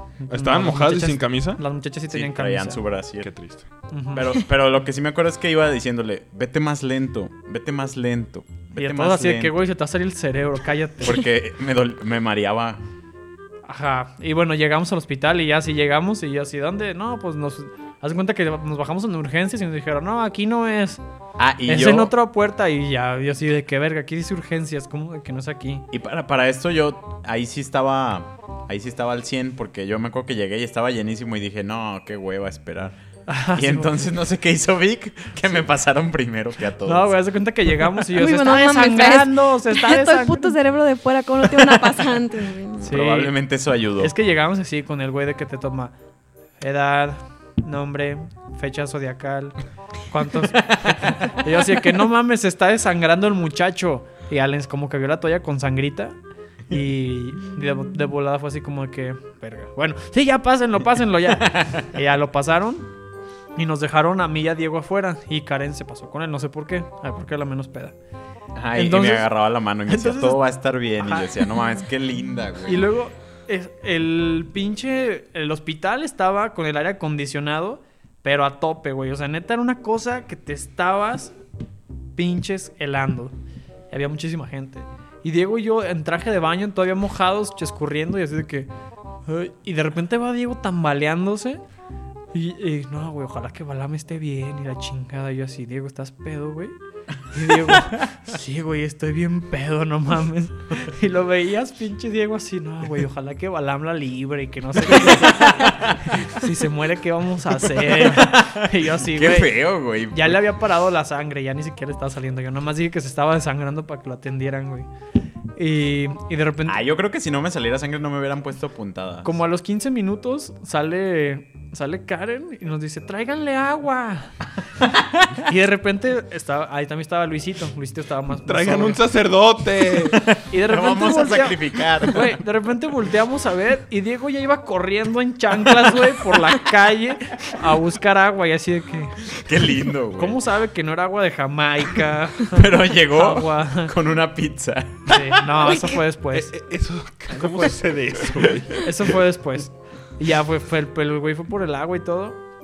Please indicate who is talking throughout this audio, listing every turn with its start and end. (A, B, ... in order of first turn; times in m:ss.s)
0:00.2-0:02.8 A
0:00.3-0:01.6 B
0:02.1-0:03.3 C
0:03.2-0:03.6 B
0:03.9-0:04.3 A
0:04.1-0:09.6 C
0:08.8-0:11.2 A
0:11.0-0:12.8 C
0:13.7-0:21.0 A
0:21.4-0:22.1 C
0:21.7-0:25.8 A
0:25.9-0:33.0 C
0:33.3-0:34.1 A
0:33.5-0:37.1 C
0:36.8-0:40.6 A
0:38.1-0:42.9 D
0:42.8-0:43.3 A
0:42.8-0:44.1 C
0:44.0-0:45.9 A
0:46.6-0:49.6 A
0:50.1-0:56.2 A
0:50.6-0:51.4 C
0:56.7-1:02.9 A
1:01.3-1:01.9 C
1:03.5-1:08.0 A
1:08.5-1:12.8 C
1:08.7-1:09.3 A
1:09.9-1:10.4 A
1:11.0-1:11.4 A
1:12.6-1:21.3 A
1:22.2-1:23.4 A
1:23.9-1:28.7 A
1:29.2-1:31.6 A
1:32.3-1:36.7 A
1:37.3-1:49.5 A
1:44.9-1:46.0 C
1:47.7-1:50.4 C
1:50.1-1:54.9 A
1:55.6-1:56.8 A
1:56.7-1:59.4 C
1:59.2-2:04.4 A
2:05.4-2:09.0 A
2:08.4-2:10.2 B
2:10.2-2:12.3 C
2:10.5-2:19.3 A
2:19.3-2:20.4 C
2:20.2-2:23.9 A
2:22.4-2:25.1 C
2:25.1-2:26.5 A
2:25.1-2:28.9 B
2:27.3-2:27.7 A
2:28.8-2:32.4 A